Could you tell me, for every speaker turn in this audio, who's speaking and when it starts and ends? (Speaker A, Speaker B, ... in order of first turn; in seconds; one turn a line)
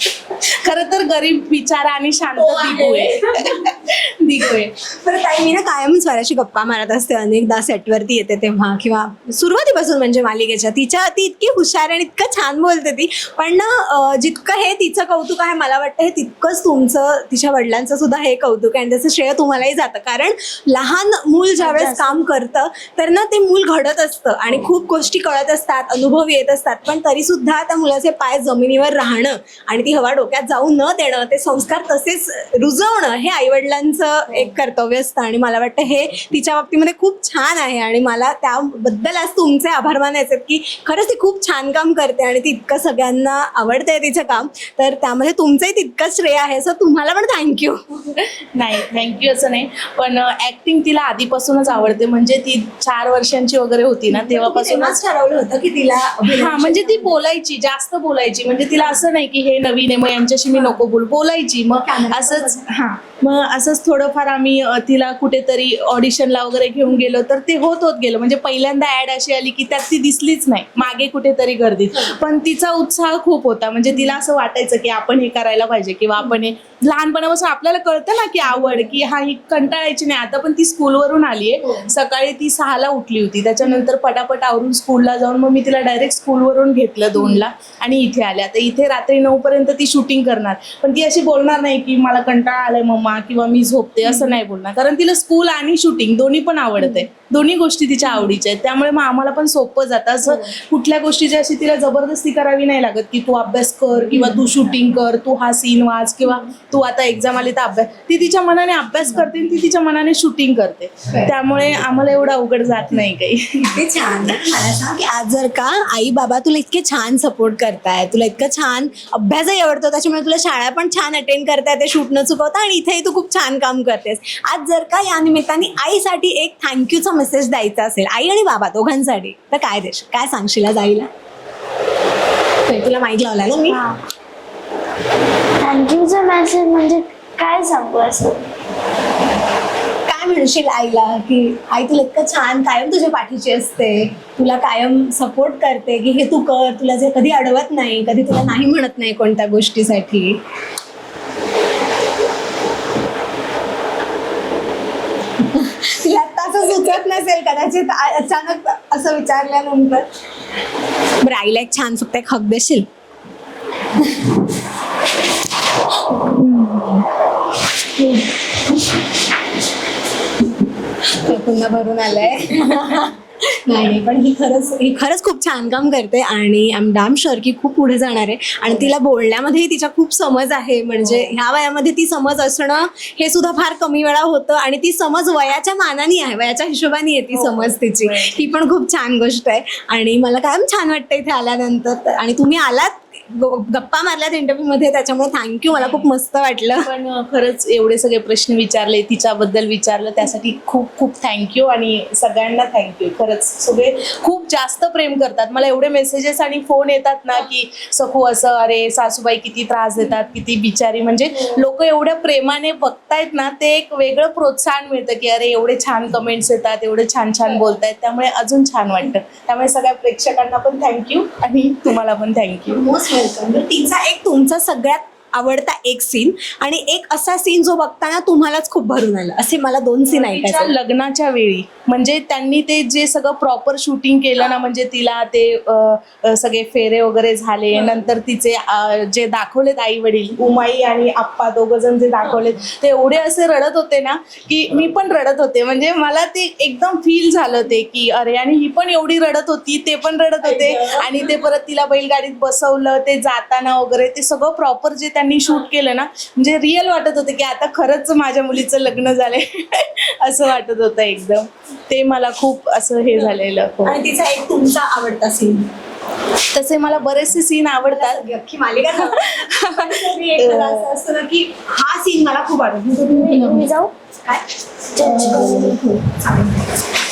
Speaker A: 0.4-4.7
Speaker B: 2.4-3.5
Speaker B: 5.0-47.8
Speaker C: 21.6-22.2
Speaker A: 48.5-55.0
Speaker B: 54.1-57.1
Speaker A: 56.3-113.8
Speaker B: 60.5-60.8
Speaker B: 61.8-62.6
Speaker B: 87.2-87.4
Speaker B: 94.1-94.4
Speaker B: 96.8-97.0
Speaker B: 104.1-104.4
Speaker B: 113.8-131.1
Speaker B: 132.7-133.8
Speaker C: 133.7-134.0
Speaker C: 135.6-138.4
Speaker B: 140.1-150.4
Speaker B: 155.5-160.1
Speaker B: 161.2-162.9
Speaker B: 164.0-164.4
Speaker A: 166.4-167.1
Speaker B: 171.1-196.9
Speaker A: 181.0-181.3
Speaker A: 187.3-188.5
Speaker A: 195.8-196.1
Speaker A: 196.8-222.8
Speaker B: 222.7-230.7
Speaker A: 230.1-264.0
Speaker B: 250.4-251.0
Speaker B: 263.1-265.7
Speaker A: 266.6-268.2
Speaker B: 267.8-273.7
Speaker A: 268.9-270.9
Speaker C: 273.1-273.9
Speaker B: 274.9-276.7
Speaker C: 275.0-275.8